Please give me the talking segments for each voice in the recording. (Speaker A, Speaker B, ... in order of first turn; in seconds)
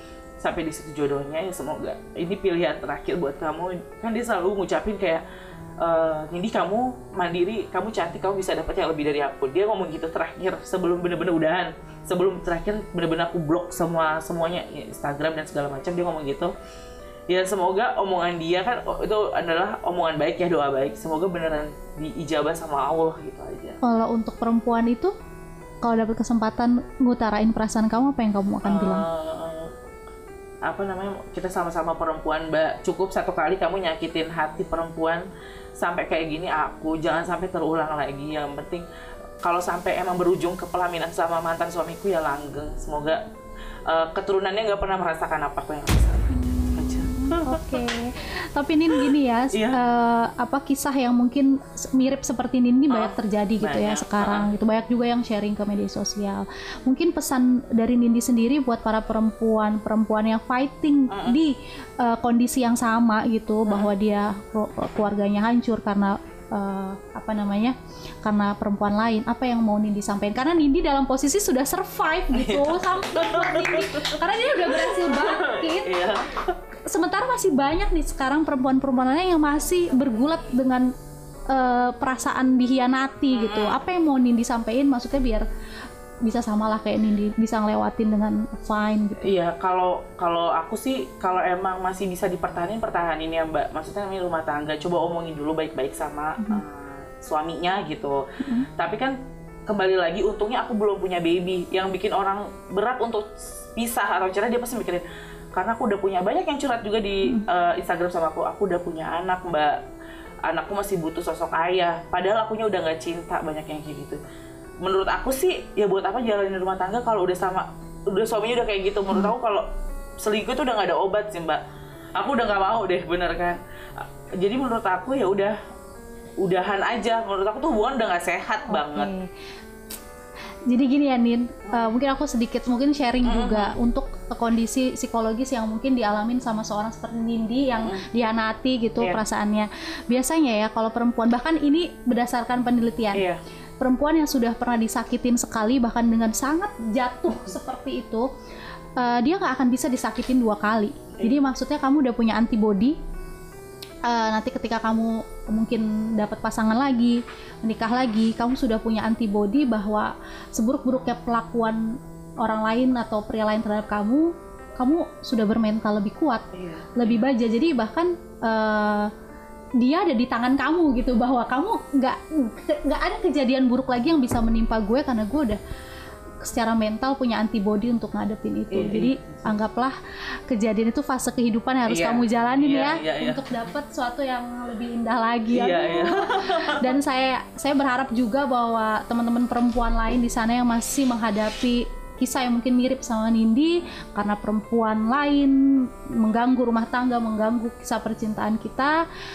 Speaker A: 0.4-5.2, 5.8-16.5, 17.3-23.8, 28.6-29.7, 30.6-35.3, 35.8-38.9, 39.4-43.2, 43.9-47.8, 48.9-49.8, 52.9-54.5, 61.1-61.4, 72.3-76.6, 83.3-83.8, 89.2-99.2, 99.7-109.8, 110.5-114.2, 114.8-119.7, 120.2-121.6, 122.2-125.5, 126.4-129.1, 131.7-131.9, 133.2-133.8, 143.1-143.4, 151.2-151.4, 166.5-167.3, 178.7-179.4, 181.9-183.5, 185.5-186.9
Speaker B: 23.8-25.1, 25.8-29.0, 46.6-76.2, 76.9-80.9, 81.5-85.4, 86.2-89.3, 98.4-98.7, 128.7-129.3, 130.7-143.2, 143.8-148.3, 149.0-153.0, 154.1-169.1, 169.8-175.6, 176.4-179.9, 180.5-199.0